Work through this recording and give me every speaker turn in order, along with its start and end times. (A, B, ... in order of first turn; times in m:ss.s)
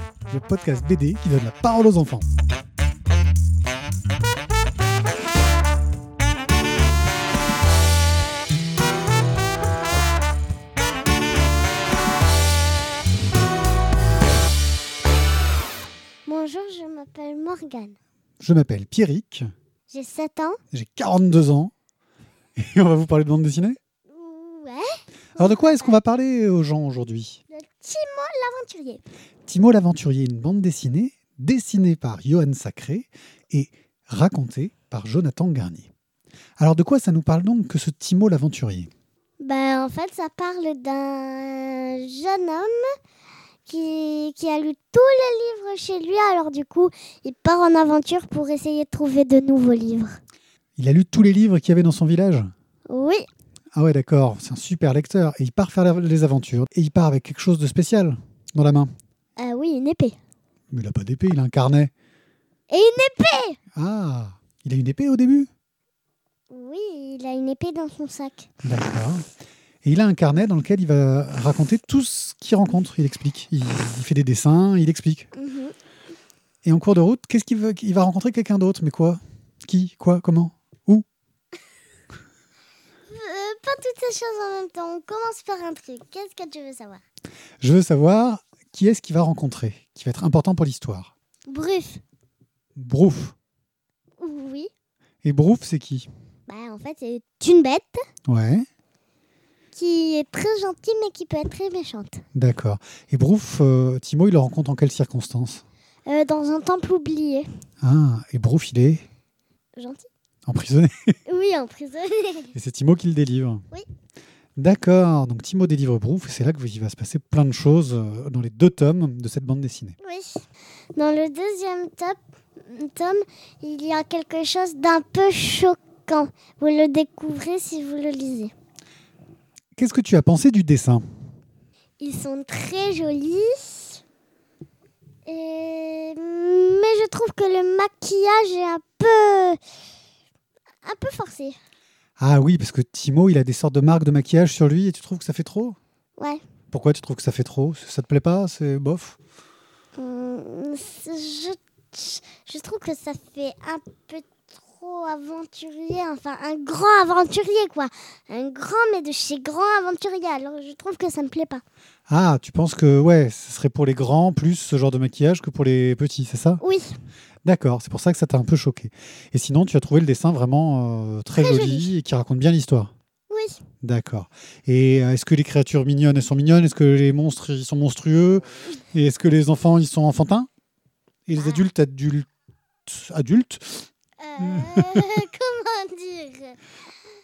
0:00.3-0:02.2 A
0:16.2-0:17.9 B
0:18.4-0:19.5 A
0:19.9-0:20.6 B
0:20.7-0:21.7 A
0:22.6-0:23.8 A
0:24.1-0:26.0 B
0:25.4-0:27.4 A
0:27.5-0:29.0 B
0:29.4-0:35.9 A
0:36.6-0:38.9 A
0:39.4-0:42.8 B
0:43.7-0:50.1 B
0:50.8-0:52.5 A
0:52.9-0:53.3 B
0:53.7-0:58.9 A
0:59.4-1:00.2 B
1:00.7-1:01.9 A
1:02.7-1:03.6 B
1:03.8-1:05.5 A
1:06.5-1:08.4 B
1:08.6-1:09.2 A
1:09.8-1:15.3 A
1:15.3-1:15.7 B
1:16.6-1:21.0 A
1:23.1-1:27.0 B
1:27.6-1:31.1 A
1:31.5-1:32.0 B
1:32.8-1:33.3 A
1:34.2-1:34.7 B
1:35.2-1:36.1 A
1:36.5-1:38.0 B
1:38.3-1:38.6 A
1:39.7-1:42.2 B
1:42.3-1:45.6 A
1:46.1-1:47.5 B
1:47.8-1:49.0 A
1:49.8-1:50.1 B
1:50.4-1:51.2 A
1:51.3-1:52.5 B
1:52.5-1:53.6 A
1:54.6-2:00.0 A
2:00.0-2:08.5 B
2:09.8-2:11.0 A
2:12.0-2:14.0 B
2:15.2-2:19.6 B
2:20.8-2:21.6 B
2:22.2-2:25.8 A
2:26.2-2:26.4 B
2:26.7-2:29.2 A
2:30.0-2:41.6 B
2:42.1-2:46.6 A
2:46.6-2:47.0 B
2:47.4-2:52.9 A
2:51.4-2:51.9 B
2:53.3-2:53.6 B
2:53.8-3:00.5 A
3:01.3-3:02.3 A
3:02.8-3:03.9 A
3:04.2-3:06.6 B
3:04.4-3:05.1 A